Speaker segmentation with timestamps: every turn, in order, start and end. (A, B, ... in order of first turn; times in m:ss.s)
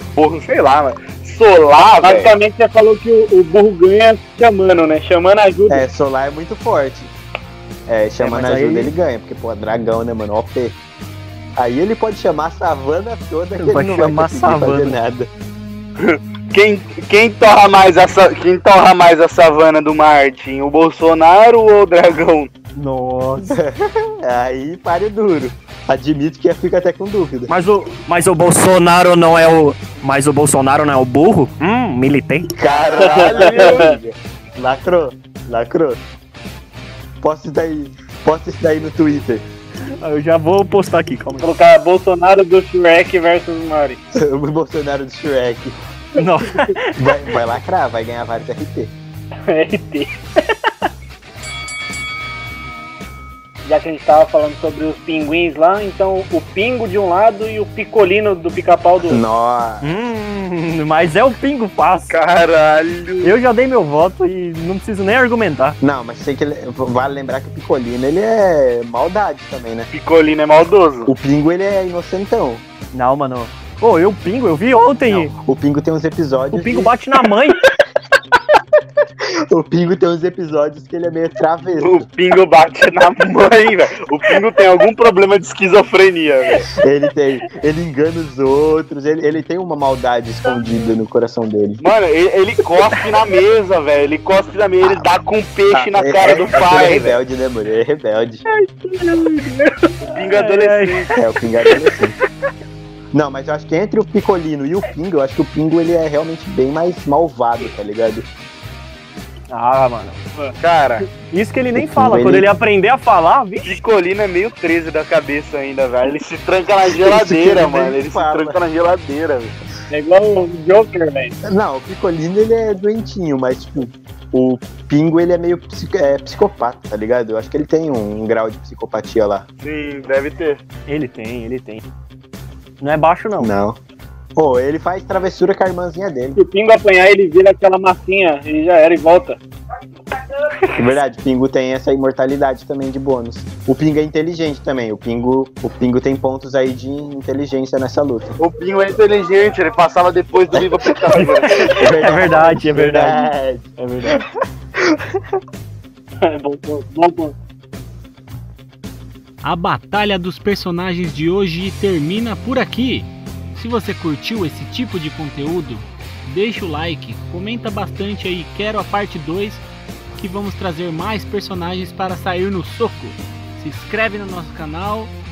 0:00.2-0:02.3 A
0:02.0-0:05.8 B
0:05.7-0:07.1 C
0:07.9-0:10.8 C
0:08.2-0:08.9 D
0:11.6-0:15.3 C
0:13.6-0:15.0 D
0:16.0-0:22.5 A
0:22.7-0:23.6 D
0:23.5-0:27.5 C
0:27.5-0:32.5 D
0:32.5-0:36.0 C
0:32.6-0:33.8 A
0:33.0-0:33.9 B
0:37.2-0:39.4 C
0:40.0-0:41.5 D
0:41.4-0:44.0 B
0:44.1-0:45.7 C
0:46.2-0:47.1 D
0:46.9-0:48.9 C
0:49.5-0:50.7 B
0:53.6-0:59.2 B
0:59.0-1:00.0 C
0:59.8-1:02.1 D
1:02.1-1:03.3 A
1:03.2-1:05.8 D
1:05.8-1:09.9 C
1:09.9-1:11.1 A
1:11.0-1:12.6 C
1:12.9-1:15.3 D
1:15.1-1:16.9 C
1:16.5-1:17.6 D
1:19.5-1:22.0 C
1:21.8-1:26.7 A
1:26.7-1:31.8 C
1:31.8-1:37.2 A
1:35.7-1:38.4 C
1:39.0-1:39.5 D
1:39.4-1:39.9 B
1:40.0-1:41.2 A
1:40.3-1:41.1 D
1:41.1-1:42.2 C
1:43.1-1:48.3 C
1:49.5-1:50.2 D
1:50.6-1:51.1 A
1:51.3-1:53.8 D
1:51.7-1:52.5 C
1:53.6-1:59.6 A
1:56.9-1:58.6 C
1:59.9-2:01.3 B
2:01.4-2:09.4 C
2:09.6-2:10.6 A
2:10.9-2:11.8 D
2:12.8-2:13.5 D
2:13.4-2:13.8 C
2:14.4-2:16.4 C
2:16.4-2:19.4 B
2:20.8-2:28.4 C
2:28.4-2:31.8 A
2:31.2-2:34.2 D
2:31.6-2:34.2 C
2:34.8-2:35.2 C
2:36.2-2:37.3 B
2:39.4-2:49.6 E
2:50.2-2:55.1 E